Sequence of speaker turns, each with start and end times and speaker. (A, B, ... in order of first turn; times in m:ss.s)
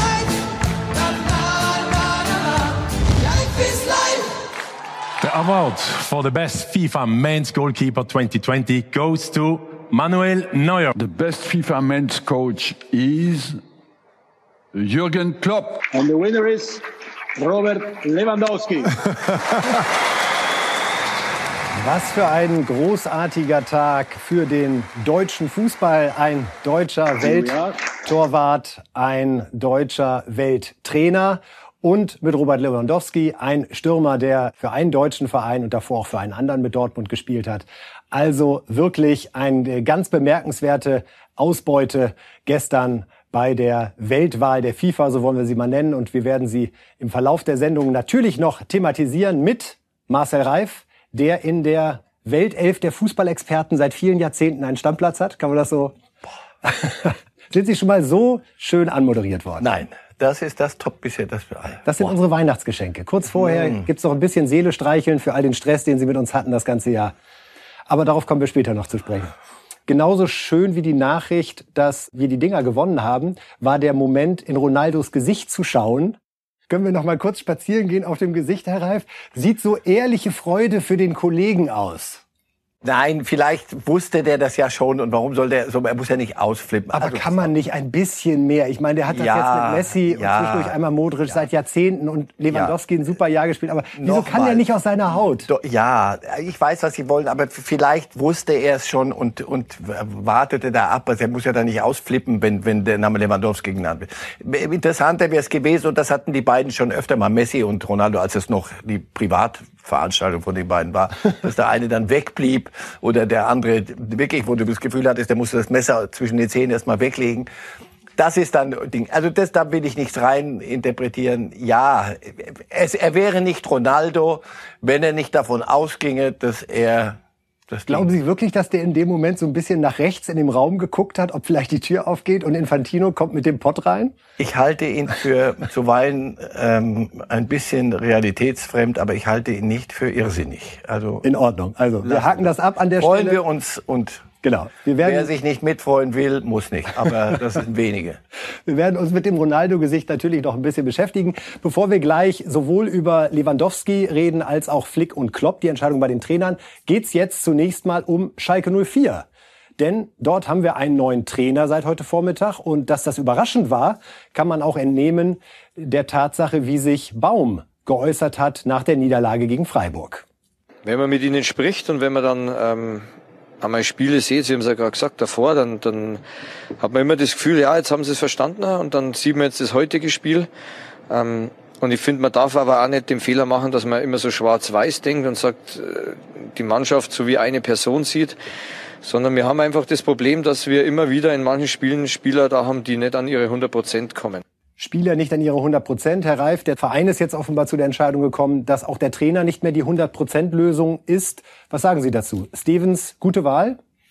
0:05.2-0:10.9 A
0:10.9-0:13.6 B
0:14.7-0:15.8 B
0:15.9-0:16.8 C
0:17.4-0:18.9 C
0:21.8-0:55.9 D
0:27.2-0:27.8 C
0:56.6-0:59.7 D
0:59.6-1:02.1 E
1:01.8-1:07.1 D
1:03.4-1:03.8 E
1:07.9-1:09.3 D
1:09.9-1:16.2 D
1:16.7-1:22.2 D
1:22.8-1:27.5 E
1:27.0-1:35.5 D
1:29.1-1:30.8 E
1:32.5-1:32.8 E
1:34.0-1:34.6 E
1:35.4-1:57.5 E
1:58.2-2:07.2 E
2:07.7-2:08.1 E
2:07.9-2:14.1 D
2:14.4-2:21.2 E
2:21.2-2:23.4 D
2:22.0-2:24.3 E
2:24.4-2:25.3 D
2:25.0-2:28.2 E
2:28.6-2:39.2 D
2:39.8-2:50.2 D
2:50.8-2:53.0 F
2:53.6-2:56.2 F
2:56.8-3:00.5 F
3:01.1-3:08.4 F
3:09.0-3:14.4 F
3:14.8-3:23.8 D